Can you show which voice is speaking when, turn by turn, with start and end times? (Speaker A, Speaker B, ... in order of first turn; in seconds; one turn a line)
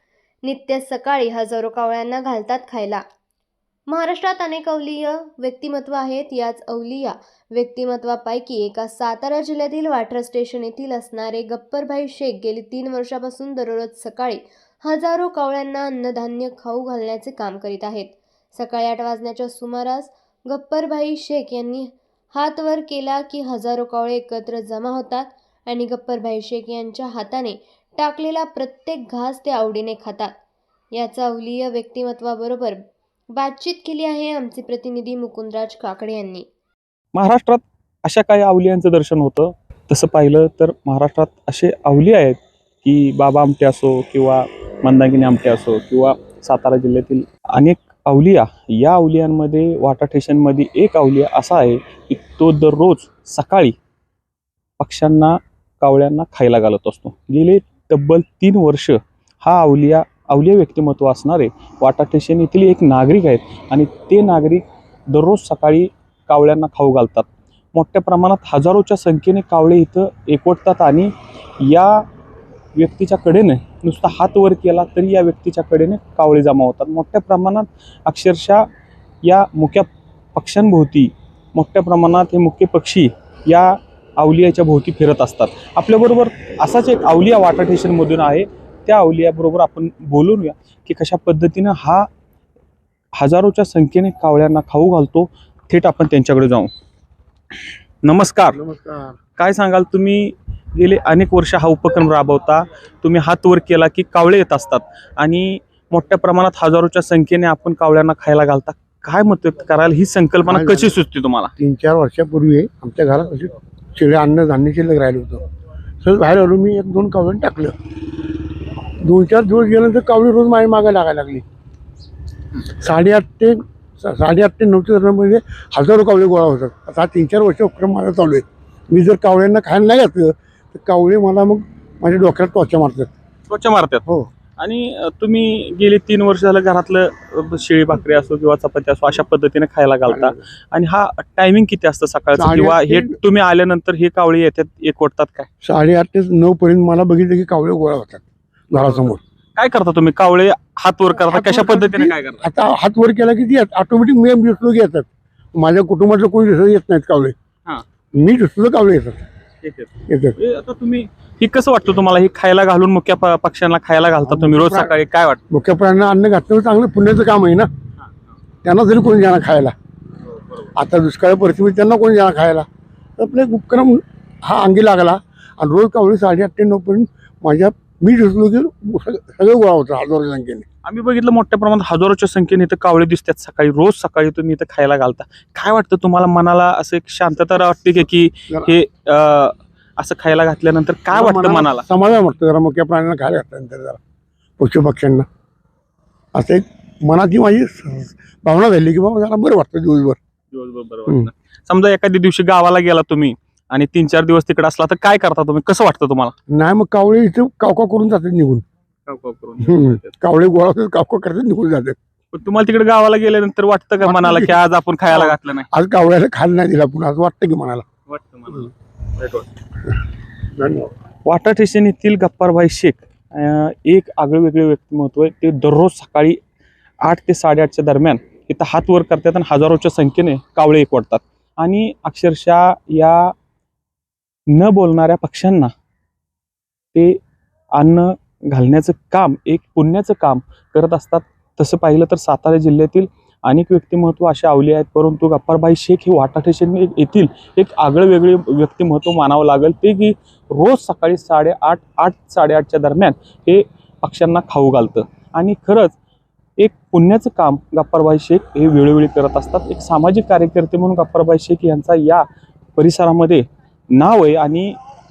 Speaker A: 0.4-3.0
Speaker A: 3.9-30.3
Speaker A: 30.9-32.8
Speaker A: 33.3-36.5
Speaker B: 37.1-53.8
Speaker B: 54.8-72.0
Speaker B: 72.8-78.6
Speaker B: 79.2-92.1
Speaker B: 93.2-96.7
Speaker B: 98.0-98.6
Speaker C: 98.5-99.2
Speaker B: 99.4-111.5
Speaker C: 110.5-111.0
Speaker C: 111.6-115.4
Speaker C: 116.0-117.8
Speaker C: 119.0-121.5
Speaker C: 122.6-133.1
Speaker B: 133.5-134.0
Speaker B: 134.6-145.5
Speaker C: 140.1-140.4
Speaker C: 142.4-143.2
Speaker C: 145.6-149.2
Speaker B: 148.8-152.4
Speaker C: 151.3-157.3
Speaker C: 158.2-159.2
Speaker B: 159.6-165.4
Speaker C: 160.1-160.4
Speaker C: 164.3-164.9
Speaker C: 165.5-167.7
Speaker C: 168.6-169.7
Speaker C: 170.8-172.7
Speaker C: 173.2-180.7
Speaker B: 180.8-191.8
Speaker C: 191.1-194.0
Speaker C: 194.6-195.3
Speaker C: 196.3-200.2
Speaker B: 200.5-206.3
Speaker C: 206.5-208.6
Speaker B: 209.1-210.1
Speaker C: 209.6-212.0
Speaker B: 212.3-215.7
Speaker C: 214.0-214.5
Speaker C: 215.1-217.8
Speaker B: 218.1-219.5
Speaker C: 220.6-220.9
Speaker B: 221.3-226.4
Speaker B: 227.0-233.3
Speaker B: 234.5-235.7
Speaker B: 237.8-256.0
Speaker B: 256.6-262.2
Speaker B: 262.8-264.8